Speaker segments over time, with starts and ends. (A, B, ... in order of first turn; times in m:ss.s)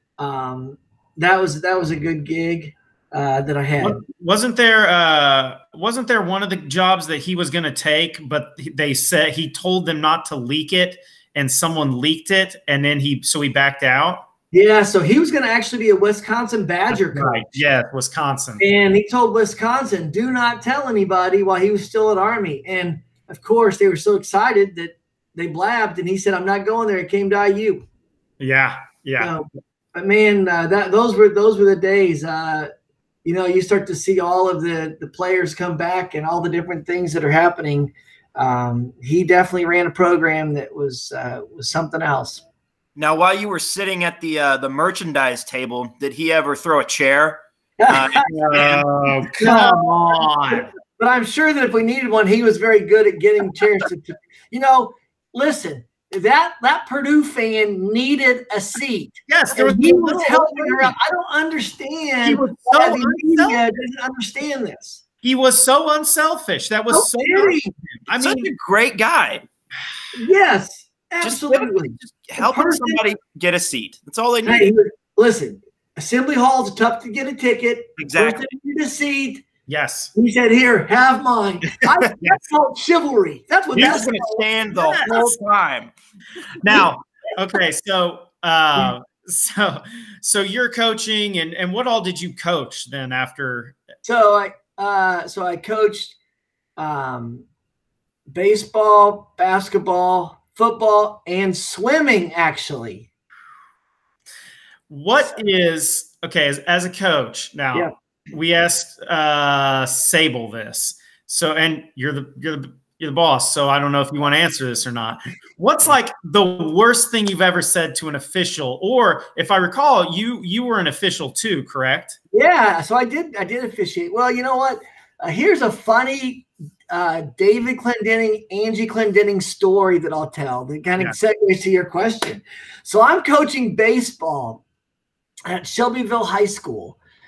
0:00.2-0:04.0 A
0:03.8-0:14.2 B
0:14.5-0:17.6 A
0:16.9-0:18.6 B
0:18.6-0:27.8 A
0:28.4-0:29.3 B
0:29.2-0:32.7 A
0:33.2-0:42.4 A
0:43.0-0:48.8 C
0:47.8-0:48.3 A
0:48.3-0:50.7 B
0:49.3-1:05.0 A
0:59.3-1:00.9 B
1:02.2-1:03.6 B
1:05.2-1:08.5 B
1:06.9-1:07.7 A
1:08.1-1:09.4 C
1:10.1-1:13.1 A
1:11.2-1:14.7 C
1:14.4-1:19.4 A
1:18.0-1:18.4 C
1:19.7-1:20.1 B
1:20.1-1:25.1 A
1:23.7-1:25.9 C
1:24.7-1:25.4 B
1:26.6-1:33.8 B
1:34.0-1:36.2 A
1:36.8-1:37.4 A
1:38.3-1:43.0 A
1:44.9-2:02.2 B
2:02.3-2:14.6 A
2:15.4-2:17.0 A